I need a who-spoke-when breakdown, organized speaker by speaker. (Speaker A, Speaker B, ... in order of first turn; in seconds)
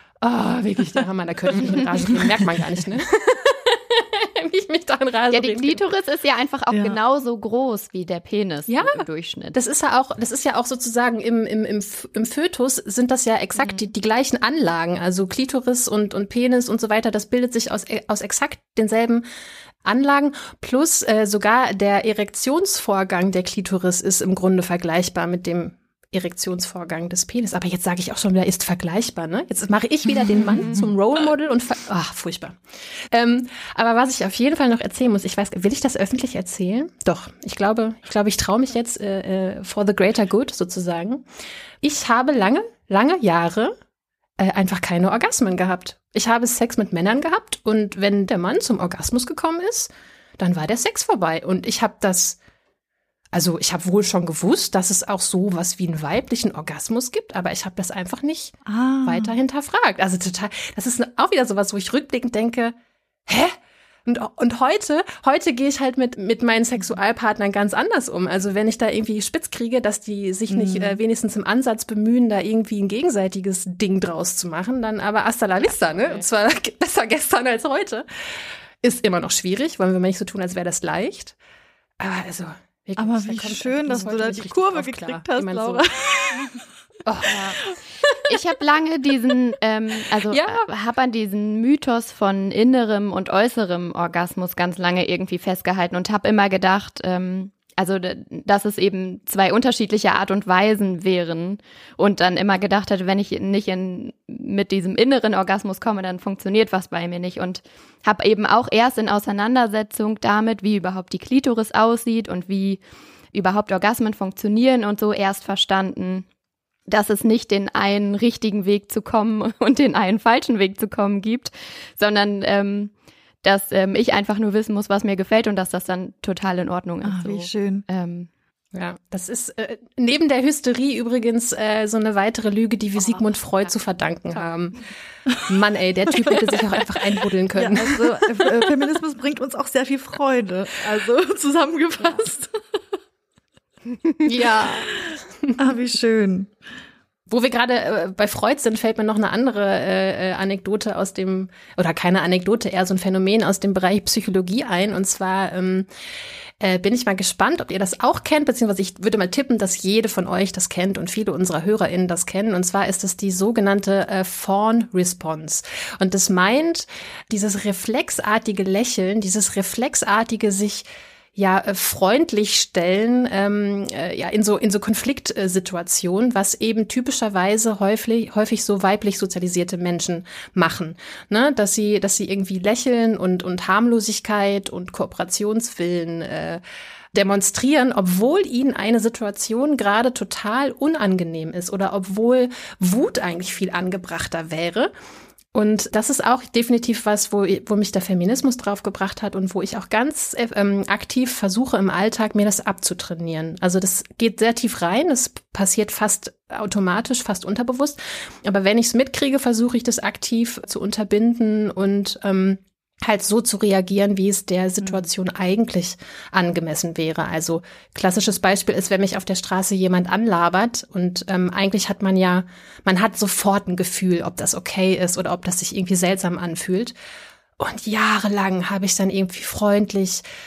Speaker A: 0.2-5.8, 8.7-19.2, 19.9-32.6, 33.1-41.2, 41.8-43.7, 44.4-52.4, 53.3-62.8, 63.3-63.5, 64.1-78.0, 78.8-81.3, 82.0-85.8, 87.1-88.2, 90.3-90.7, 128.7-134.8, 135.5-138.0, 144.2-144.9, 147.3-155.9, 156.6-186.6, 187.1-194.9, 195.5-226.9, 227.6-230.2
Speaker B: 5.3-9.6, 13.6-13.9, 87.2-87.6, 88.3-112.8, 113.3-116.3, 116.9-122.9, 123.4-128.3, 133.0-133.7
Speaker C: 6.7-7.0, 30.3-30.7, 58.7-59.4, 70.5-71.0, 83.0-86.6, 127.0-127.9, 137.6-142.8, 144.3-144.7, 145.6-146.5